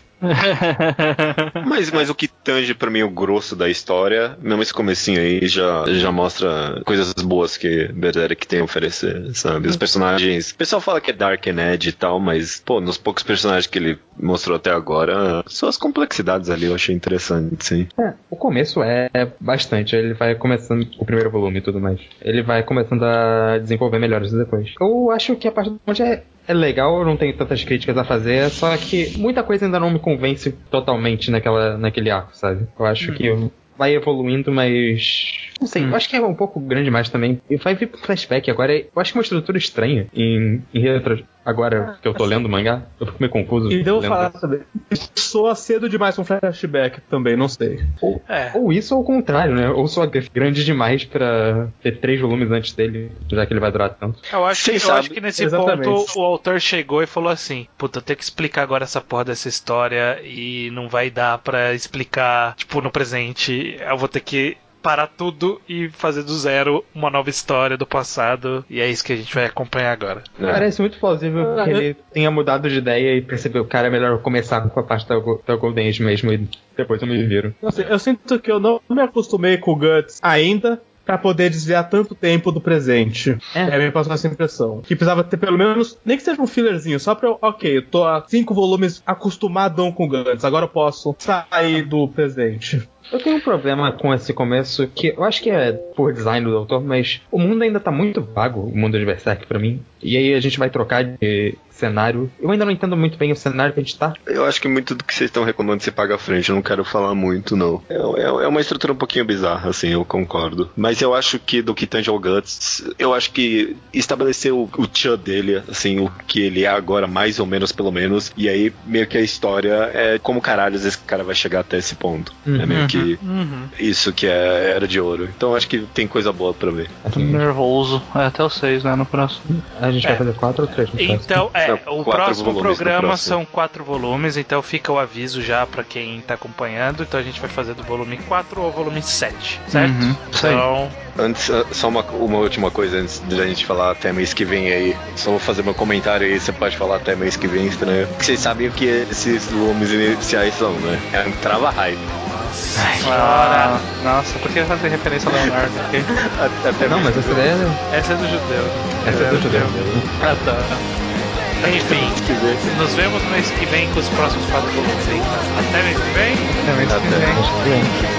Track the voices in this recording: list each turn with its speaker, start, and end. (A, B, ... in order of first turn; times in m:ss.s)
0:00.2-0:01.6 A
0:01.6-0:17.9 B
0:18.0-0:44.3 C
0:43.7-0:47.9 D
0:48.0-0:54.2 C
0:48.3-0:48.6 E
0:54.3-1:10.3 E
0:54.5-0:55.2 B
0:55.4-0:56.1 D
1:10.4-1:10.7 B
1:10.5-1:17.6 C
1:11.4-1:11.8 D
1:17.6-1:32.8 D
1:33.1-1:44.2 C
1:44.2-2:03.2 B
2:02.5-2:02.9 C
2:02.7-2:03.1 A
2:03.2-2:03.7 E
2:03.7-2:07.0 B
2:07.0-2:07.4 C
2:07.1-2:09.4 A
2:09.5-2:11.4 C
2:11.0-2:21.0 E
2:11.6-2:13.4 B
2:19.7-2:20.6 A
2:21.2-2:32.1 B
2:32.2-2:33.8 E
2:32.8-2:36.1 A
2:36.2-2:37.5 B
2:36.8-2:37.8 C
2:37.9-2:39.9 E
2:39.0-2:40.2 C
2:39.1-2:39.6 B
2:40.2-2:40.8 A
2:41.6-2:46.5 E
2:41.6-2:42.7 B
2:46.6-2:47.4 A
2:46.8-2:47.4 B
2:47.1-2:47.9 C